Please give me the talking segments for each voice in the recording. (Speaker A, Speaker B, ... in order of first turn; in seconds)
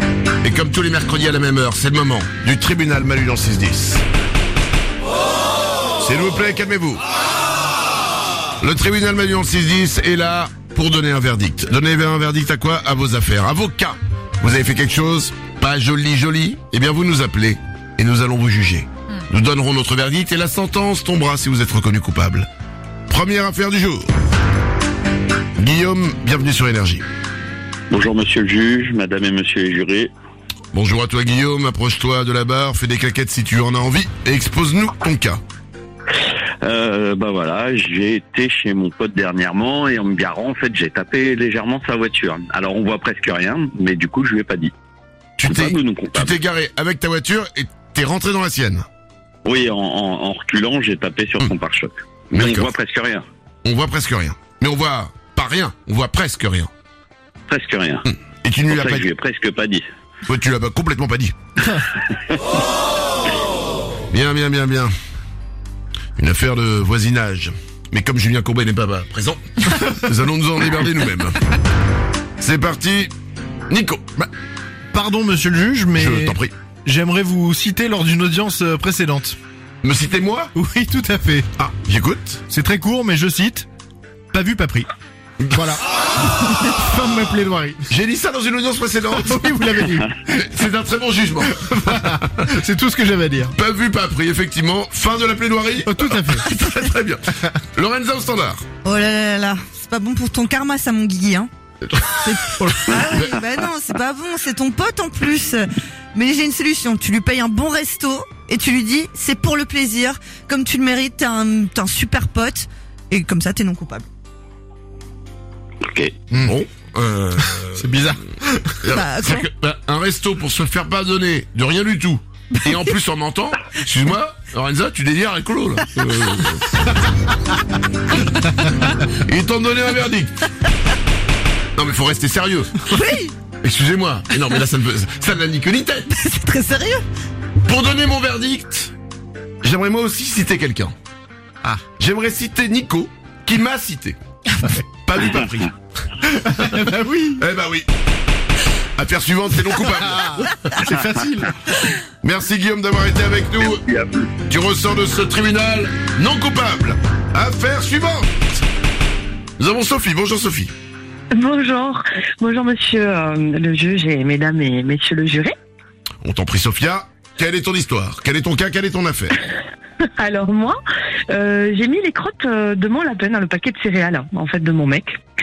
Speaker A: 0.4-4.0, 6.0-7.0, 8.6-22.5, 23.1-24.1, 25.6-27.0, 30.7-35.4, 45.4-48.8, 52.3-52.7, 53.6-56.7, 58.0-59.1, 60.3-61.3, 64.1-64.9, 66.2-71.4, 72.4-73.1, 73.7-74.3, 75.9-76.5, 79.8-80.5, 81.6-82.4, 87.9-89.6, 90.2-92.4, 93.5-98.7, 101.8-103.4, 116.4-117.9, 118.8-127.0, 129.1-130.4, 131.8-132.8, 133.6-136.1, 137.6-138.9, 139.6-140.9, 142.0-144.2, 145.0-145.7, 147.4-147.9, 149.0-150.6, 152.2-153.8, 154.5-158.3, 159.6-160.7, 166.2-169.3
Speaker B: 27.9-30.1, 36.6-44.7, 45.5-46.4, 49.4-53.2, 57.5-58.0, 58.7-59.8, 115.8-116.2, 153.8-154.3
Speaker C: 74.9-79.4, 80.5-81.5, 82.5-83.7, 84.3-84.9, 85.4-87.8, 89.2-90.1, 91.7-93.5, 95.8-96.4, 102.6-102.8, 117.8-118.8, 146.4-147.4, 150.1-151.5
Speaker D: 98.8-101.5, 102.2-114.1, 118.9-119.4, 132.9-133.3, 136.1-137.0
Speaker E: 161.3-165.5, 170.2-170.8, 171.3-175.1